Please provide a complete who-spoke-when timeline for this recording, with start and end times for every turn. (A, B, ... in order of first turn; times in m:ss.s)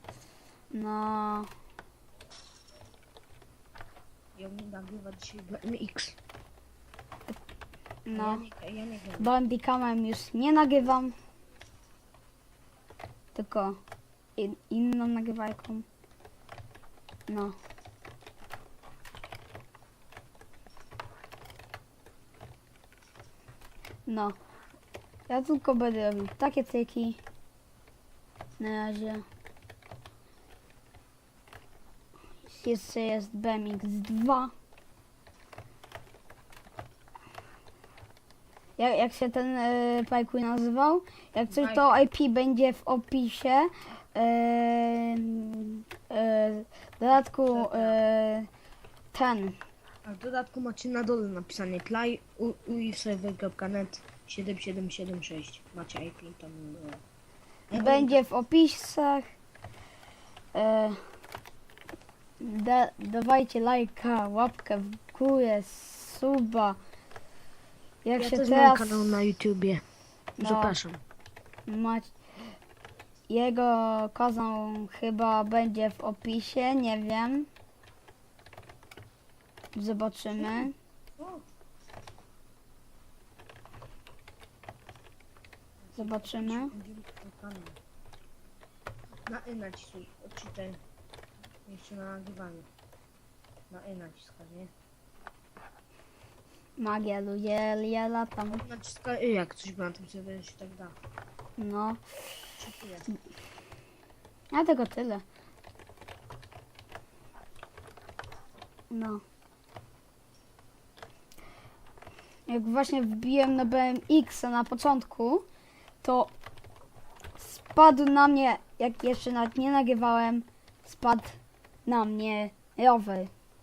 0:00.7-0:01.5 A
0:04.3-0:06.2 B
0:08.0-0:08.4 A
0:08.1-0:09.3 B
0:09.2-0:11.1 A
0:13.3-0:13.8 A
0:14.4-0:15.8 A
0:17.3-0:17.6 A
0:24.1-0:24.3 A
0:25.3-0:27.2 A
0:28.6-0:29.2 A
0:32.5-0:34.5 A
0:38.8-0:48.5 A
0:41.5-0:41.8 B
0:47.5-0:48.0 B
0:49.1-0:49.6 A
0:50.0-0:57.0 B
0:57.7-0:58.2 B
0:57.7-0:59.2 A
1:00.5-1:01.0 A
1:02.4-1:06.8 A
1:08.0-1:09.0 A
1:08.2-1:09.8 B
1:10.4-1:10.8 A
1:10.4-1:11.0 B
1:11.7-1:12.1 A
1:13.3-1:17.5 A
1:19.7-1:20.7 A
1:20.4-1:21.4 B
1:25.9-1:27.8 B
1:26.0-1:26.7 A
1:29.3-1:30.8 B
1:31.6-1:32.7 B
1:33.7-1:34.7 B
1:36.8-1:38.6 A
1:38.5-1:40.9 B
1:41.6-1:42.0 A
1:42.6-1:43.0 B
1:44.5-1:45.2 A
1:48.9-1:49.2 A
1:52.5-1:55.4 A
1:56.0-1:56.3 A
1:57.4-2:03.3 A